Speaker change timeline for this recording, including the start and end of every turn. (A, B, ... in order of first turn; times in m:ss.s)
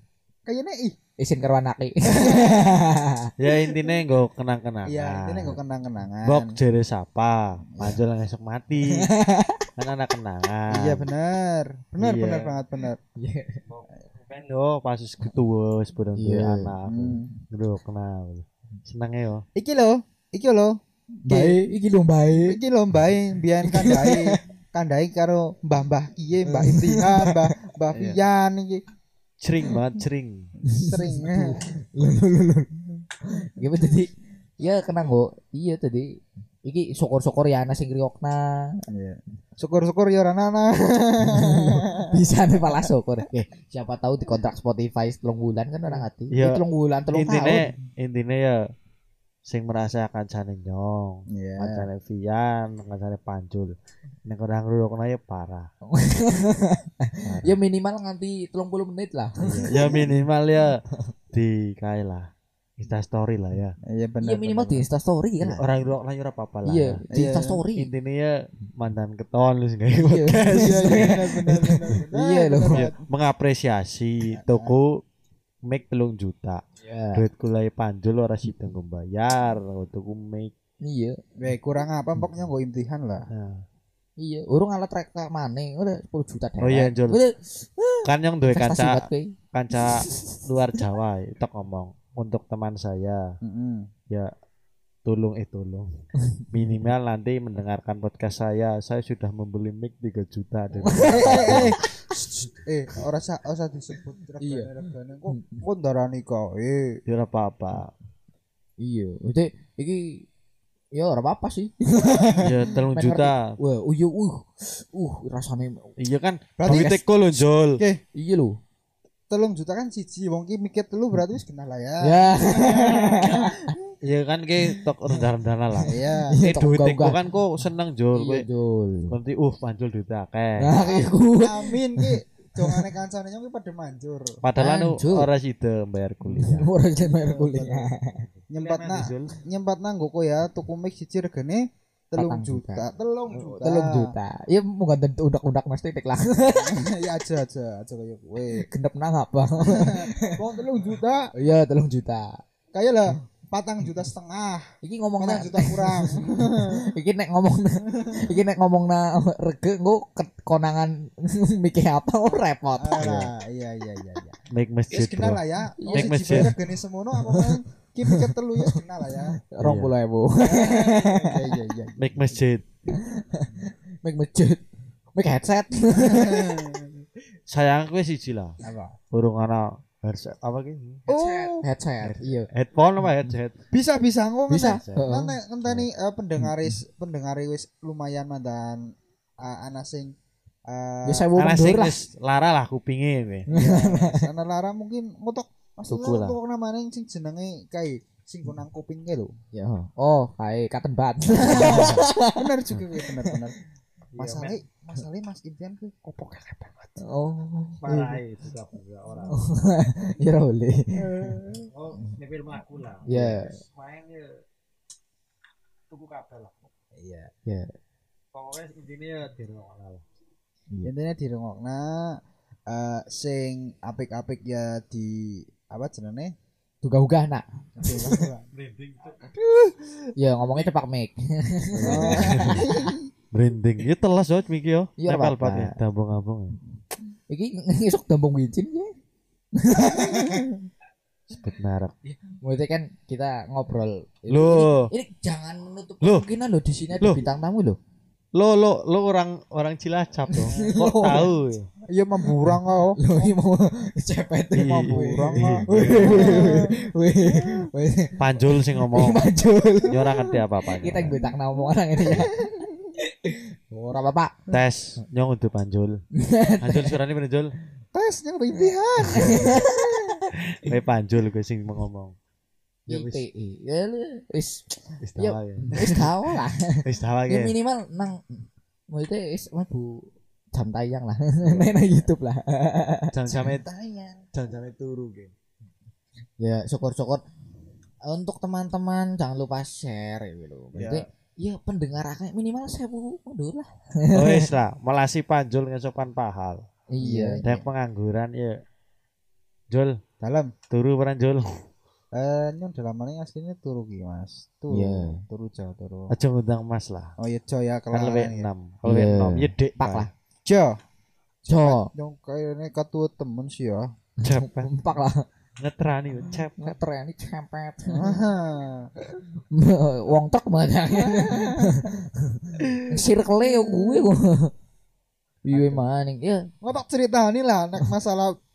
0:00.5-0:01.0 A
0:01.2-0:03.3 B
0:02.1-0:02.8 A
0:03.4-0:05.6 C
0:04.9-0:06.6 A
0:06.2-0:09.1 C
0:08.9-0:09.6 B
0:09.8-0:11.1 C
0:10.7-0:13.0 A
0:12.0-0:12.6 C
0:13.2-0:13.6 B
0:13.7-0:19.4 C
0:16.2-0:16.7 B
0:16.9-0:17.3 A
0:19.6-0:20.8 A
0:21.2-0:22.6 B
0:21.3-0:21.6 A
0:22.4-0:28.8 A
0:23.6-0:24.4 B
0:26.5-0:27.6 B
0:29.4-0:30.5 C
0:30.7-0:32.7 B
0:30.8-0:31.6 A
0:33.2-0:38.8 B
0:38.9-0:42.1 A
0:41.2-0:47.6 B
0:46.3-0:48.6 C
0:49.5-0:55.7 C
0:51.3-0:51.9 A
0:55.9-1:00.0 B
0:57.3-0:57.6 C
0:59.4-1:03.8 C
0:59.7-1:00.0 A
1:03.8-1:04.8 A
1:04.2-1:05.6 B
1:05.4-1:07.0 C
1:06.7-1:07.9 B
1:07.1-1:07.6 A
1:07.8-1:11.3 C
1:10.0-1:12.8 B
1:10.5-1:13.0 A
1:12.7-1:15.0 C
1:14.4-1:14.8 A
1:15.6-1:16.6 C
1:16.8-1:17.2 B
1:17.2-1:20.5 C
1:20.8-1:21.2 B
1:21.4-1:23.3 A
1:23.3-1:23.6 C
1:24.2-1:30.4 B
1:26.6-1:27.2 C
1:28.0-1:33.3 C
1:33.4-1:33.9 A
1:35.0-1:35.9 C
1:36.2-1:36.5 B
1:36.5-1:41.8 C
1:40.8-1:42.5 B
1:41.1-1:41.8 A
1:42.6-1:47.0 A
1:44.4-1:44.7 B
1:45.3-1:45.6 B
1:47.1-1:47.9 C
1:48.8-1:50.3 B
1:51.0-1:55.9 B
1:52.2-1:52.6 A
1:52.4-1:53.6 C
1:56.0-1:57.8 C
1:56.6-1:57.0 A
1:56.7-1:56.9 B
1:57.8-1:58.0 A
1:58.2-1:58.6 B
1:59.3-2:03.9 A
2:02.0-2:03.8 B
2:04.0-2:08.5 C
2:05.8-2:07.3 B
2:05.8-2:06.4 A
2:08.1-2:09.1 B
2:09.1-2:10.8 C
2:10.6-2:12.8 B
2:10.8-2:14.4 A
2:14.4-2:16.7 C
2:14.6-2:15.3 B
2:16.3-2:18.2 B
2:17.0-2:17.9 A
2:18.0-2:19.4 C
2:18.5-2:24.1 A
2:22.2-2:22.9 B
2:23.3-2:23.6 C
2:23.6-2:26.8 B
2:26.6-2:28.7 A
2:28.5-2:30.4 B
2:29.6-2:31.3 A
2:31.4-2:32.4 B
2:32.7-2:34.7 A
2:34.8-2:43.3 B
2:35.2-2:36.8 A
2:37.9-2:38.4 A
2:42.8-2:44.4 A
2:43.0-2:43.3 C
2:44.5-2:45.4 C
2:44.9-2:49.4 A
2:45.8-2:46.5 B
2:45.9-2:46.5 C
2:47.2-2:48.8 B
2:49.5-2:51.6 B
2:49.6-2:49.9 C
2:50.4-2:52.4 A
2:52.0-2:52.7 C
2:52.9-2:54.6 B
2:55.2-2:56.7 B
2:56.0-2:56.9 A
2:57.5-2:58.6 C
2:58.6-2:59.0 A
2:59.1-3:01.0 C
3:01.1-3:01.7 A
3:01.1-3:02.5 B
3:02.0-3:03.6 C
3:03.7-3:08.8 A
3:04.5-3:05.4 B
3:04.6-3:05.1 C
3:09.4-3:10.2 A
3:10.7-3:11.3 A
3:11.1-3:12.0 B
3:11.4-3:13.5 C
3:13.5-3:19.3 A
3:13.5-3:14.3 B
3:15.9-3:16.4 C
3:19.5-3:23.4 B
3:21.4-3:23.6 A
3:24.1-3:24.6 C
3:24.2-3:27.0 A
3:27.0-3:27.8 B
3:27.8-3:29.4 C
3:27.9-3:28.2 A
3:29.3-3:31.4 B
3:31.0-3:31.7 A
3:31.7-3:34.4 C
3:33.1-3:33.6 B
3:35.9-3:36.7 C
3:37.0-3:37.3 A
3:37.5-3:37.7 B
3:38.3-3:40.0 C
3:40.8-3:46.3 A
3:46.8-3:48.3 B
3:47.8-3:48.5 A
3:48.5-3:49.3 C
3:50.2-3:53.0 B
3:51.7-3:52.7 C
3:51.8-3:53.1 A
3:53.3-3:56.6 C
3:55.0-3:55.8 B
3:57.3-3:58.9 B
3:59.6-4:00.7 B
3:59.9-4:00.4 A
4:01.3-4:02.0 C
4:02.4-4:07.8 B
4:04.3-4:04.9 C
4:08.4-4:11.7 C
4:10.3-4:11.3 B
4:10.5-4:10.8 A
4:11.9-4:13.3 A
4:12.5-4:24.4 B
4:14.6-4:16.6 C
4:14.7-4:17.7 A
4:18.2-4:19.2 C
4:19.9-4:21.2 C
4:21.1-4:22.7 A
4:24.5-4:26.0 C
4:26.2-4:27.0 B
4:26.6-4:27.5 C
4:27.9-4:30.2 A
4:28.6-4:30.3 B
4:30.5-4:32.2 C
4:32.9-4:33.2 C
4:32.9-4:43.1 B
4:35.0-4:36.1 C
4:36.8-4:37.6 C
4:43.1-4:43.6 C
4:43.3-4:44.2 A
4:44.3-4:45.3 C
4:46.4-4:47.2 B
4:48.1-4:54.5 B
4:50.8-4:51.0 A
4:54.1-4:56.6 C
4:56.9-4:57.4 B
4:57.0-4:57.7 A
4:57.4-4:58.6 C
4:59.7-5:00.0 C
5:00.2-5:00.5 A
5:00.7-5:01.6 C
5:02.2-5:06.1 A
5:04.7-5:05.2 B
5:06.1-5:07.2 C
5:07.2-5:08.5 A
5:07.9-5:10.1 C
5:08.9-5:10.1 B
5:10.4-5:10.8 A
5:11.4-5:13.9 A
5:11.5-5:11.9 B
5:14.2-5:15.3 B
5:14.2-5:14.7 C
5:15.6-5:16.8 C
5:16.6-5:18.2 B
5:17.9-5:18.9 A
5:19.5-5:24.5 B
5:21.0-5:21.8 A
5:22.6-5:24.1 A
5:25.4-5:26.5 B
5:25.5-5:25.8 A
5:26.6-5:28.4 A